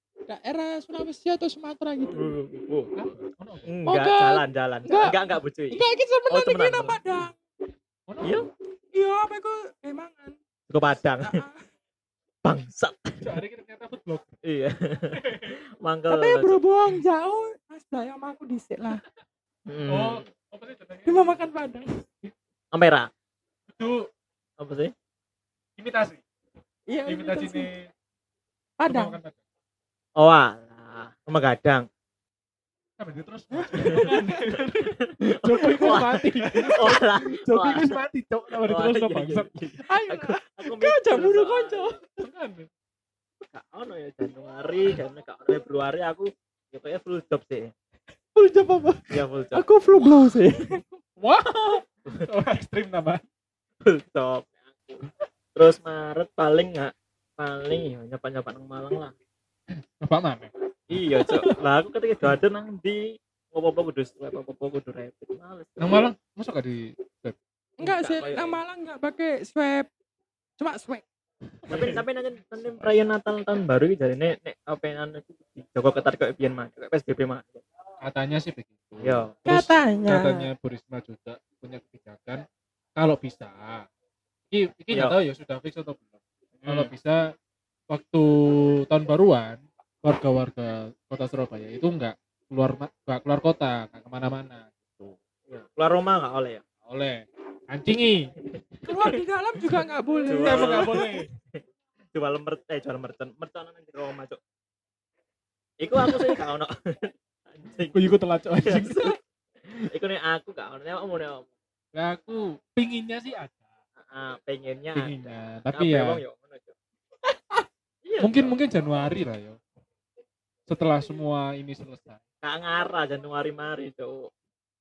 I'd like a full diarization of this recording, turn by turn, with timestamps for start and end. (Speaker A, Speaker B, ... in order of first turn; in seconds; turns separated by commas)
Speaker A: 0.3-2.3, Speaker B: 2.1-2.9, Speaker C: 3.0-3.7, Speaker B: 3.6-7.0, Speaker A: 3.9-5.2, Speaker A: 5.7-7.4, Speaker C: 8.1-8.4, Speaker B: 8.2-8.5, Speaker A: 8.9-10.4, Speaker B: 10.7-11.4, Speaker A: 11.2-11.5, Speaker B: 12.4-13.4, Speaker C: 13.2-14.3, Speaker B: 14.4-16.6, Speaker C: 15.1-15.6, Speaker A: 16.1-19.0, Speaker B: 19.7-20.2, Speaker C: 19.9-21.4, Speaker A: 21.1-21.9, Speaker B: 22.7-23.1, Speaker C: 23.8-24.1, Speaker B: 24.6-24.9, Speaker C: 25.8-26.2, Speaker A: 26.9-27.7, Speaker C: 27.1-27.9, Speaker A: 28.8-29.1, Speaker C: 28.9-29.4, Speaker B: 30.2-31.8, Speaker C: 33.0-39.5, Speaker B: 33.7-37.9, Speaker A: 33.8-34.4, Speaker B: 38.6-41.9, Speaker A: 39.9-42.0, Speaker C: 42.2-42.7, Speaker B: 43.5-47.7, Speaker A: 48.4-50.8, Speaker B: 49.1-49.6, Speaker C: 51.2-53.2, Speaker B: 53.8-59.1, Speaker C: 60.0-60.5, Speaker B: 60.9-66.1, Speaker C: 61.1-61.5, Speaker C: 65.8-67.3, Speaker A: 67.8-69.9, Speaker B: 67.8-68.6, Speaker A: 70.6-71.0, Speaker C: 71.6-72.0, Speaker B: 71.7-77.6, Speaker C: 78.0-82.4, Speaker B: 79.0-79.3, Speaker A: 79.5-80.5, Speaker C: 83.0-83.8, Speaker C: 84.5-86.1, Speaker B: 84.9-85.2, Speaker B: 86.6-86.9, Speaker C: 86.7-87.2, Speaker C: 87.9-95.2, Speaker B: 95.5-96.6, Speaker C: 96.8-98.3, Speaker A: 98.8-100.9, Speaker C: 100.2-101.3, Speaker B: 100.3-101.6, Speaker B: 102.1-104.4, Speaker B: 105.8-108.0, Speaker C: 107.9-109.1, Speaker B: 108.6-109.2, Speaker B: 109.8-111.5, Speaker C: 111.9-113.6, Speaker B: 114.0-116.7, Speaker C: 114.9-116.2, Speaker B: 118.0-118.5, Speaker C: 118.2-119.6, Speaker C: 120.7-122.2, Speaker B: 122.4-124.3